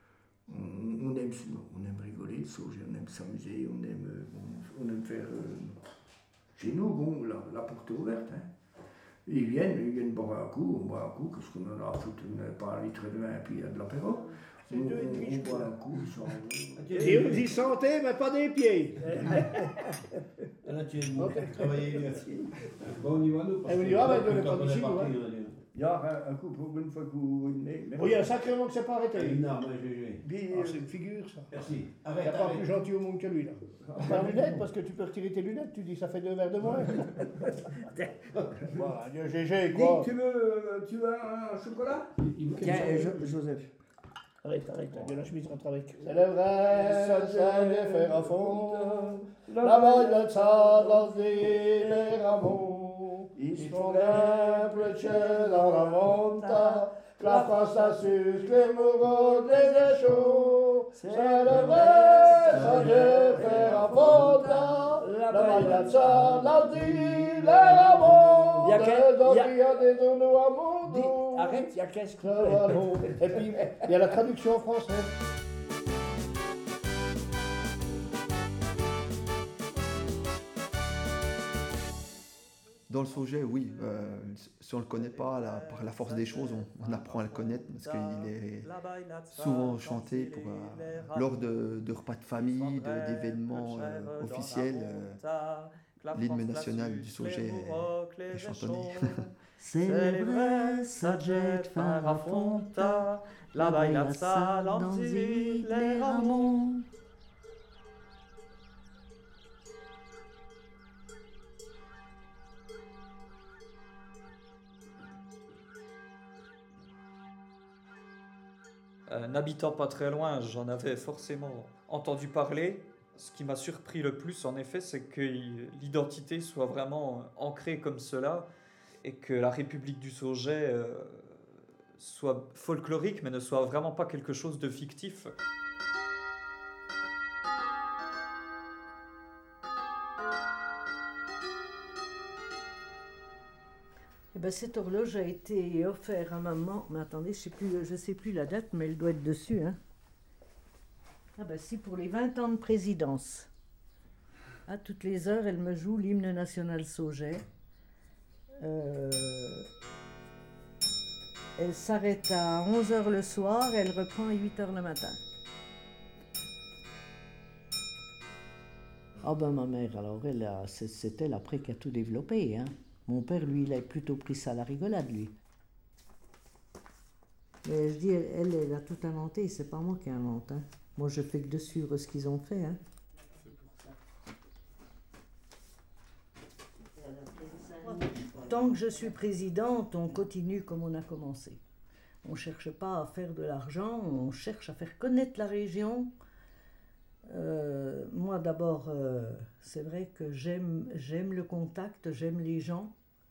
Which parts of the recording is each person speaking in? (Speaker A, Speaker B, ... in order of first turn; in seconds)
Speaker A: 0.5-5.8, 6.5-8.5, 9.2-17.4, 19.0-19.9, 21.2-22.5, 25.7-28.4, 30.2-30.9, 33.9-34.6, 36.8-37.2, 38.0-38.9, 39.7-43.7, 44.7-45.3, 46.0-66.7, 67.2-69.8, 70.8-74.0
Speaker B: 14.7-15.7, 17.0-19.0, 21.1-21.5, 23.6-25.2, 27.9-29.4, 30.5-31.5, 32.2-37.1, 38.8-40.1, 42.3-43.2, 44.5-71.6, 72.2-75.1
Speaker C: 16.8-17.6, 19.0-19.5, 20.6-25.6, 29.1-30.3, 31.5-32.8, 66.1-68.3
Speaker D: 82.9-88.7, 89.3-95.2, 96.1-99.1
Speaker E: 84.9-91.5, 92.3-106.5, 119.1-128.5, 129.0-131.4, 132.0-135.3
Speaker F: 99.6-103.0, 103.6-106.8, 144.3-149.8, 151.4-153.5, 154.7-157.4, 158.6-159.7, 161.6-165.2, 169.2-175.3, 177.6-182.8, 187.8-191.6, 192.2-196.1, 197.3-202.9